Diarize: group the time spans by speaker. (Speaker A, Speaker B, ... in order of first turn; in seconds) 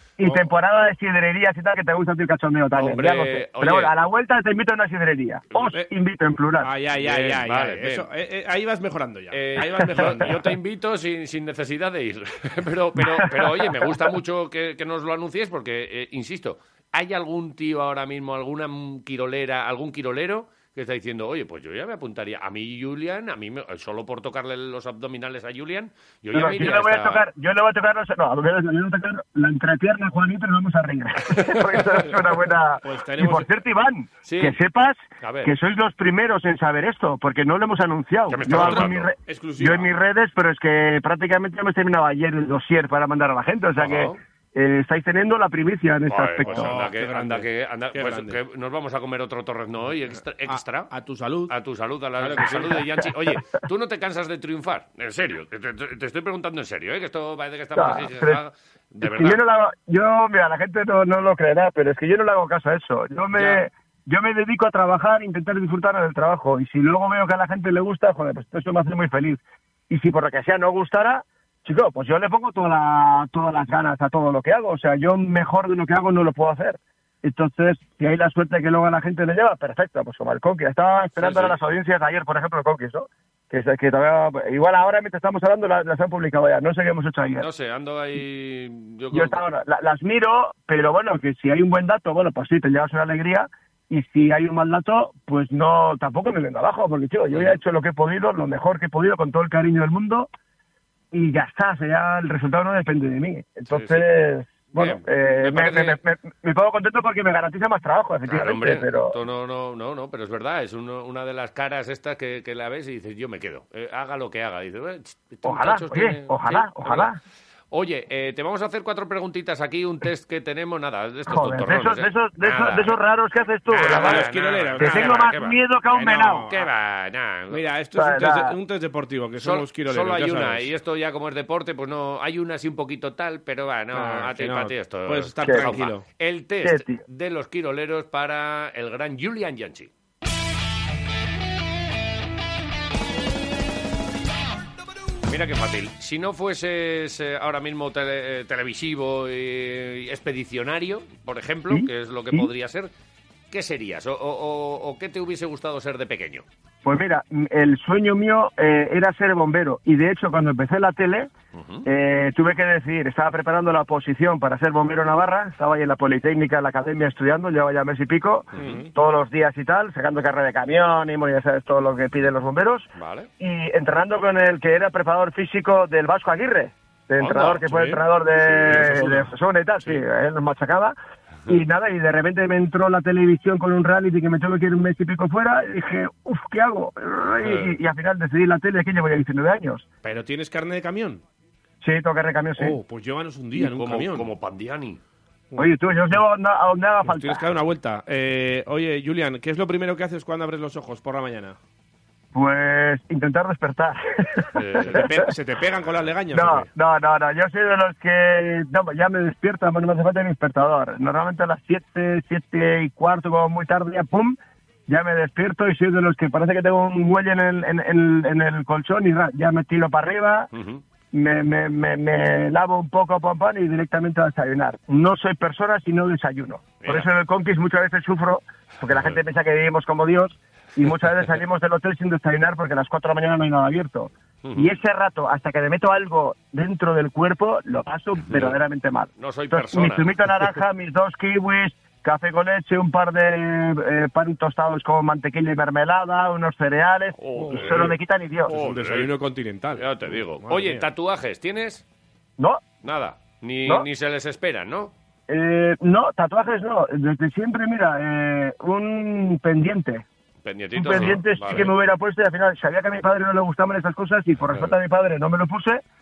Speaker A: 0.2-6.7, 13.1-13.7, 26.3-46.7, 57.8-58.4, 59.0-87.5, 89.1-100.3, 101.1-109.2, 115.4-117.2, 121.3-126.5, 127.9-128.6, 135.4-135.8, 136.6-137.0, 151.7-152.5, 156.8-161.3, 161.8-180.9, 181.5-189.8, 191.8-192.8, 195.6-197.4, 202.3-205.3, 206.3-220.5, 221.1-248.6, 255.3-260.1, 260.8-265.8
Speaker B: 0.2-0.5, 6.6-10.5, 31.8-33.5, 38.5-39.9, 46.4-48.4, 50.4-51.5, 52.2-52.9, 123.9-125.2, 126.0-126.7, 127.5-130.7, 133.9-136.1, 168.5-168.9, 177.7-178.0, 178.7-178.9, 190.0-191.2, 192.6-194.3, 195.5-195.8, 197.0-201.6, 204.8-206.7, 247.3-250.9
Speaker C: 2.8-3.9, 7.0-8.1, 9.3-27.2, 31.4-31.8, 34.2-34.6, 35.2-35.5, 38.3-39.1, 43.8-44.2, 46.1-50.9, 51.5-59.4, 63.3-63.6, 81.2-81.5, 87.3-89.4, 97.3-97.6, 103.7-104.0, 104.8-106.0, 108.2-117.1, 117.7-123.0, 123.7-127.6, 129.4-139.9, 145.3-152.9, 153.5-156.4, 161.5-161.8, 168.5-168.8, 172.9-173.3, 177.2-177.7, 178.6-179.2, 187.4-187.8, 193.5-195.0, 204.6-205.1, 220.5-220.8, 226.8-227.1, 228.9-229.2, 234.4-234.7, 238.3-238.6, 239.2-240.3, 247.1-247.9, 248.5-249.1, 249.8-251.8, 252.8-254.9, 260.4-261.7